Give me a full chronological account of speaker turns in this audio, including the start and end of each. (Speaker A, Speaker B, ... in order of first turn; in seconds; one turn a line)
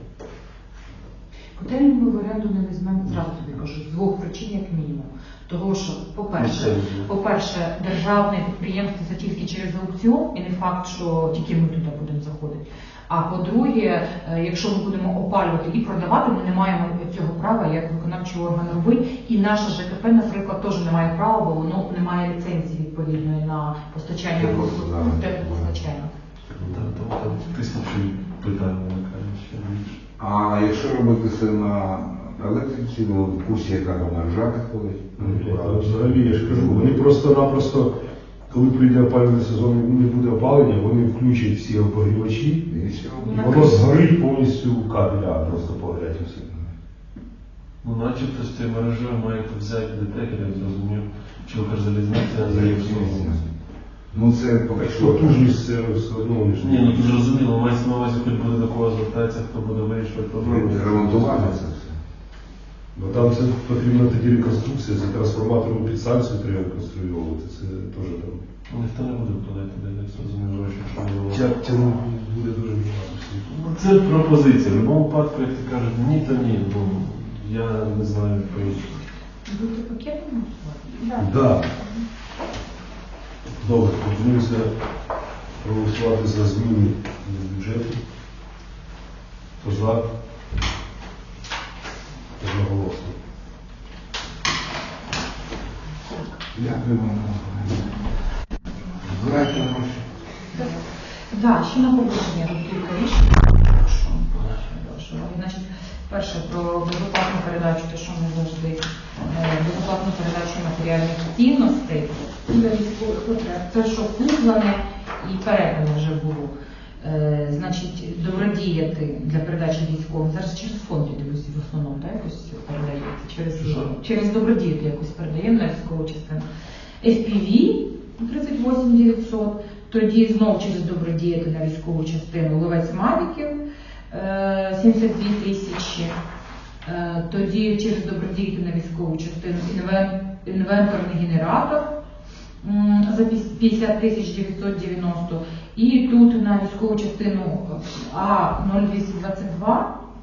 Speaker A: 1.5-26.1
Speaker B: 6.3-7.1
Speaker C: 24.3-25.8
Speaker B: 26.5-30.0
Speaker D: 26.6-26.9
Speaker A: 27.2-27.5
Speaker C: 30.2-37.0
Speaker D: 35.2-37.9
Speaker D: 38.5-42.6
Speaker C: 42.7-43.3
Speaker A: 43.1-43.9
Speaker D: 43.3-46.5
Speaker B: 47.8-53.4
Speaker C: 52.5-53.4
Speaker C: 54.1-55.5
Speaker D: 54.8-57.2
Speaker B: 56.6-61.6
Speaker C: 60.5-61.9
Speaker D: 62.9-68.4
Speaker B: 68.7-71.6
Speaker D: 71.3-73.6
Speaker B: 73.5-79.0
Speaker A: 79.4-82.0
Speaker D: 81.2-81.7
Speaker D: 83.6-84.7
Speaker D: 85.6-88.0
Speaker D: 89.6-90.0
Speaker D: 92.4-93.1
Speaker C: 96.5-98.0
Speaker A: 98.8-99.7
Speaker C: 99.0-100.1
Speaker A: 100.5-126.4
Speaker B: 123.5-123.9
Speaker A: 127.0-133.6
Speaker A: 134.1-136.1
Speaker A: 136.8-141.9
Speaker A: 142.6-149.9